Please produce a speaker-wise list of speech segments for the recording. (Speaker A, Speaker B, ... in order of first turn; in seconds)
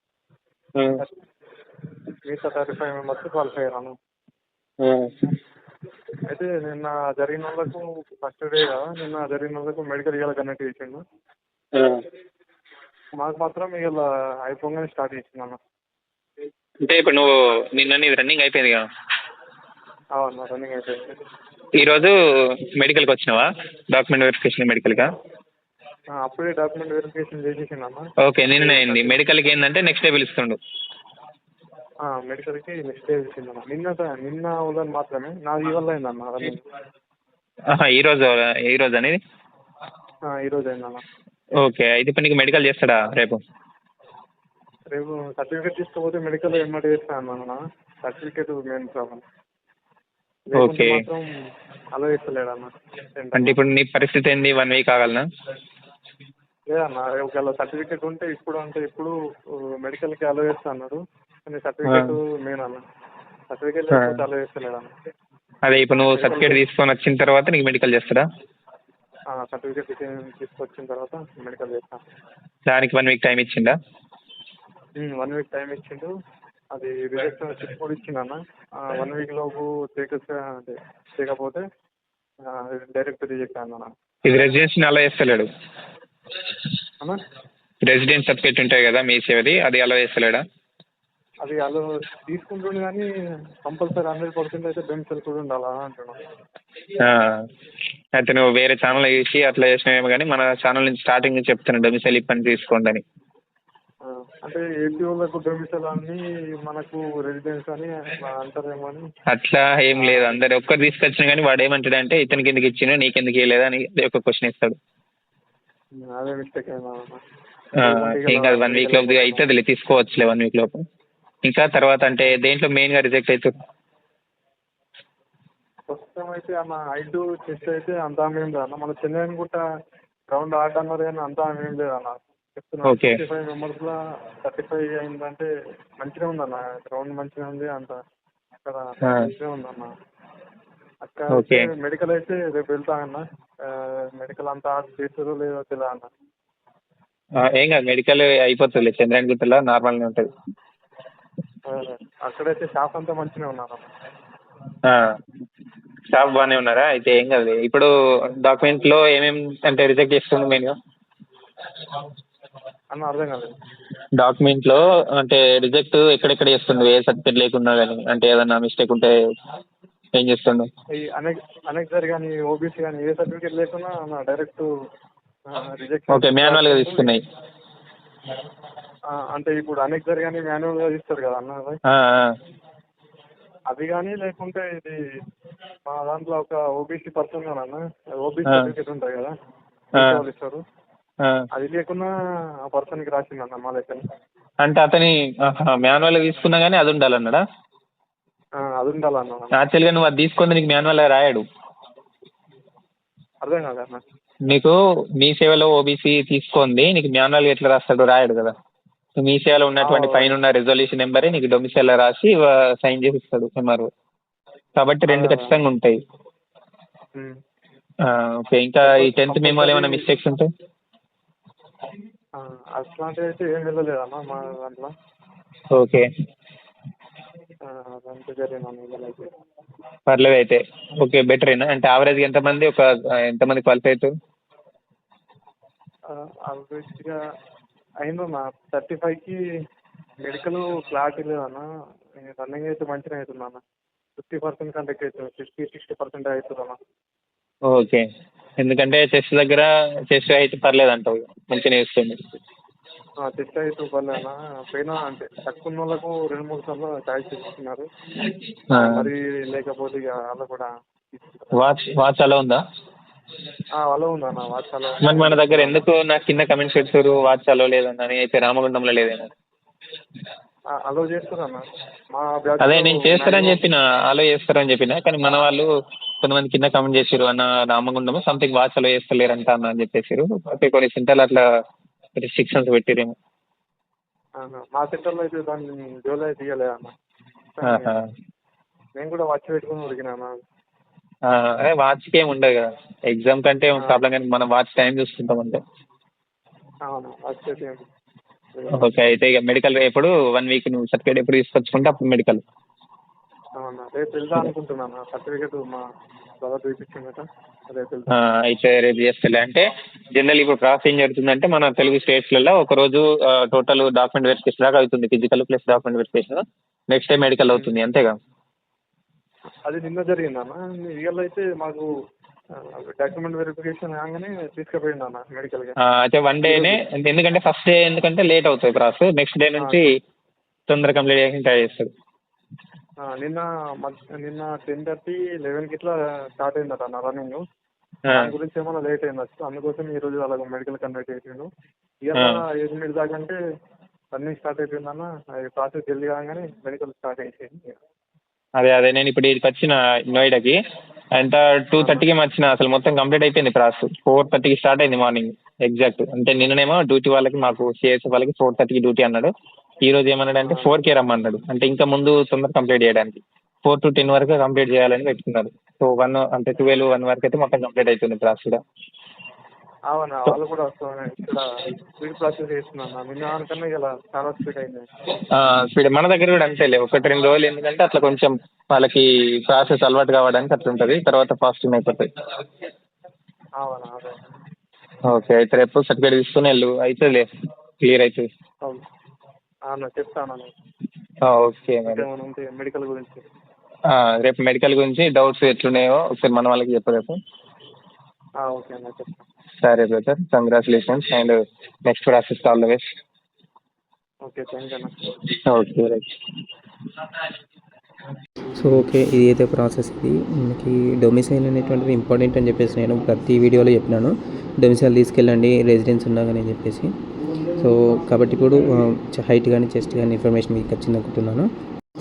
Speaker A: 2.3-3.9, 6.3-11.0, 13.2-15.6, 20.2-21.1, 26.2-28.0, 28.6-29.2, 32.0-36.6, 40.3-41.0, 44.9-49.2, 50.5-51.3, 52.0-53.6, 56.7-59.1, 59.8-62.8, 63.5-64.9, 65.9-66.6, 69.3-72.0, 75.0-76.1, 76.8-81.6, 82.5-83.9, 91.4-93.1, 93.7-96.2, 104.0-109.0, 110.0-110.4, 116.1-117.2, 117.8-119.4, 125.9-129.6, 130.3-135.5, 136.0-138.0, 138.7-139.9, 141.0-146.1, 151.7-153.9, 162.9-163.5, 171.0-174.7, 175.5-177.1, 179.1-181.8, 183.7-185.0, 185.9-189.3, 189.9-190.6, 191.5-192.1, 192.7-194.0, 198.6-199.5, 203.4-204.0, 209.8-210.3, 215.1-215.5, 218.8-220.0, 222.4-224.9, 227.7-229.3, 236.1-237.2, 238.0-239.4, 240.2-241.6, 242.2-243.6, 244.2-246.8, 253.2-257.9, 258.8-261.6, 263.8-265.8, 270.7-271.6, 272.1-273.6, 284.4-286.9, 287.6-287.9, 289.0-290.4, 296.9-297.8, 298.6-298.9, 303.6-305.8, 306.4-308.1, 317.5-317.8, 319.7-321.9, 322.6-325.8, 326.4-326.8, 333.0-337.4, 338.1-341.5, 342.0-343.4, 344.1-347.8, 351.8-352.1, 360.4-360.7, 369.9-371.4, 372.0-374.9, 383.6-384.2, 389.7-390.5, 391.9-393.2, 398.4-399.2, 404.3-404.9
Speaker B: 4.8-5.1, 16.9-18.8, 21.8-22.1, 22.8-25.1, 28.2-30.6, 37.7-39.2, 41.6-43.4, 50.6-51.0, 53.4-55.2, 61.9-62.1, 63.9-64.2, 65.7-68.2, 72.7-73.7, 84.3-85.5, 87.8-90.4, 97.0-97.4, 98.2-103.0, 109.3-114.8, 117.8-120.8, 121.5-123.5, 132.8-133.2, 141.3-141.7, 147.4-150.3, 156.1-157.9, 158.4-160.8, 164.2-169.1, 170.2-170.7, 176.1-177.2, 181.9-182.3, 190.0-190.2, 194.6-197.4, 199.5-201.4, 204.5-208.5, 209.2-213.9, 214.8-216.0, 218.0-220.5, 225.7-226.1, 230.1-234.1, 247.7-248.1, 248.6-252.2, 258.7-259.1, 261.5-262.6, 265.0-269.3, 272.6-275.7, 276.2-281.4, 282.2-283.1, 287.6-288.0, 291.3-295.6, 298.7-302.4, 308.1-318.1, 325.8-329.9, 330.7-331.9, 338.1-338.3, 342.1-342.4, 348.6-350.6, 351.2-359.3, 359.8-368.6, 375.3-382.1, 385.1-387.3, 387.8-388.3, 391.2-392.0, 393.9-397.2, 399.6-402.8, 405.5-406.1
Speaker C: 408.6-416.9, 417.6-421.5